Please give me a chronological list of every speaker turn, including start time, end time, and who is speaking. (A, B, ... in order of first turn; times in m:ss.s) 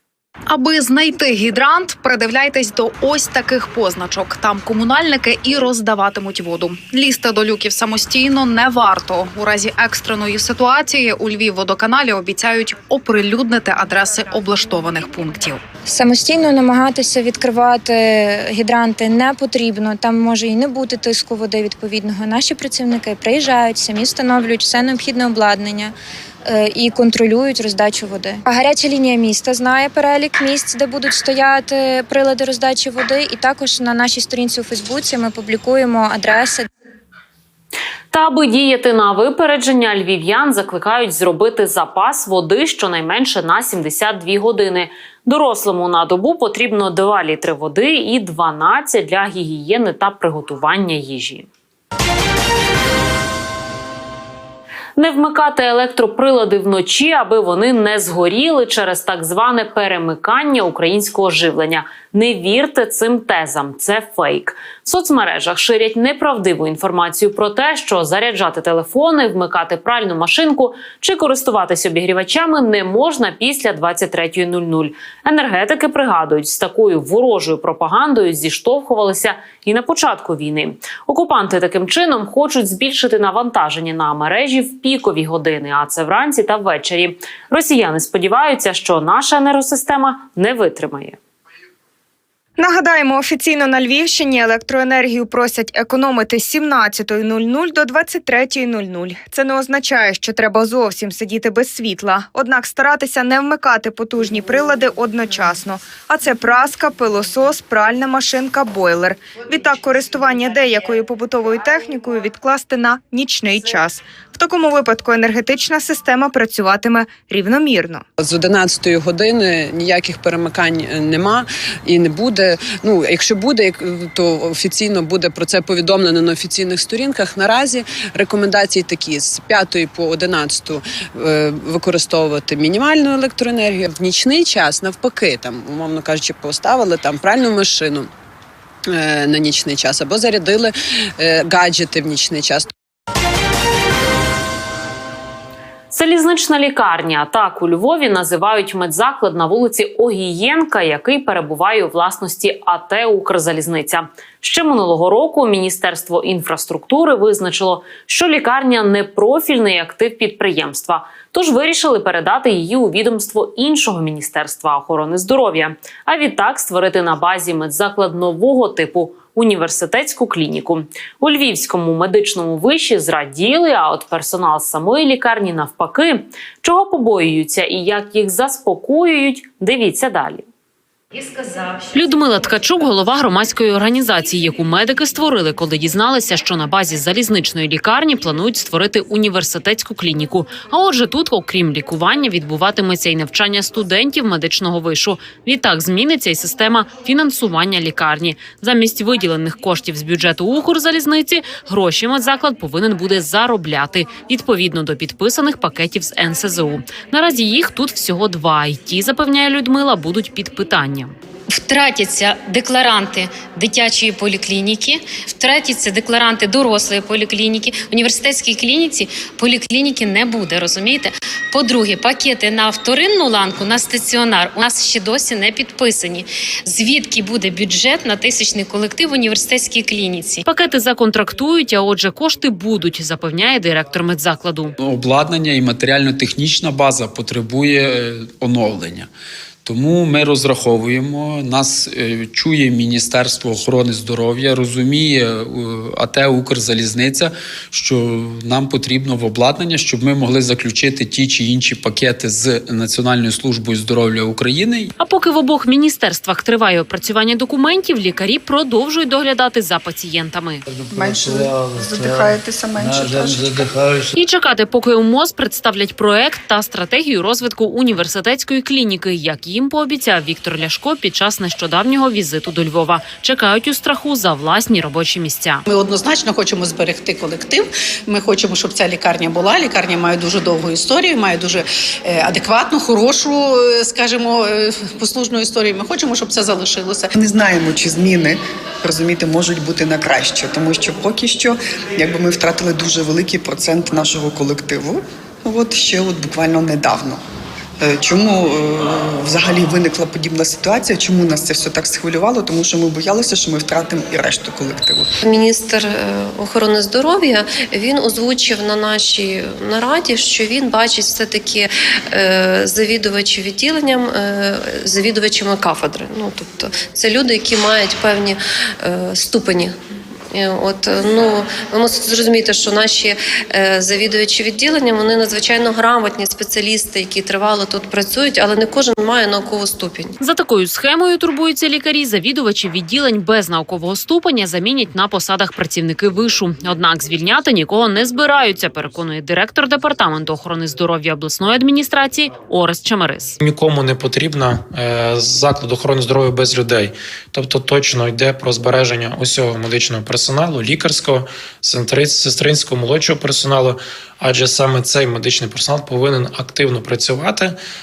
0:00.4-0:15.6 A
0:15.9-0:26.0 B
0:26.5-0:36.7 B
0:38.1-0:51.5 C
0:55.0-1:31.2 C
1:32.6-1:58.0 D
1:58.2-2:18.1 E
2:18.9-2:22.7 E
2:25.9-3:00.4 C
3:01.3-3:01.8 F
3:01.9-3:31.1 C
3:31.5-3:50.4 F
3:50.4-3:54.7 C
3:54.8-3:59.1 G
3:59.6-4:14.9 G
4:15.0-4:20.6 C
4:20.7-4:24.1 H
4:20.9-4:23.7 I
4:24.1-4:35.6 C
4:35.7-4:41.6 H
4:35.8-4:37.6 E
4:38.1-4:41.6 E
4:42.1-4:46.9 H
4:42.4-4:43.3 E
4:43.8-4:44.1 E
4:45.1-4:47.1 E
4:47.1-4:57.2 I
4:57.8-5:05.1 I
5:05.2-5:19.8 J
5:20.3-5:30.1 J
5:30.2-5:43.4 C
5:43.4-5:57.6 K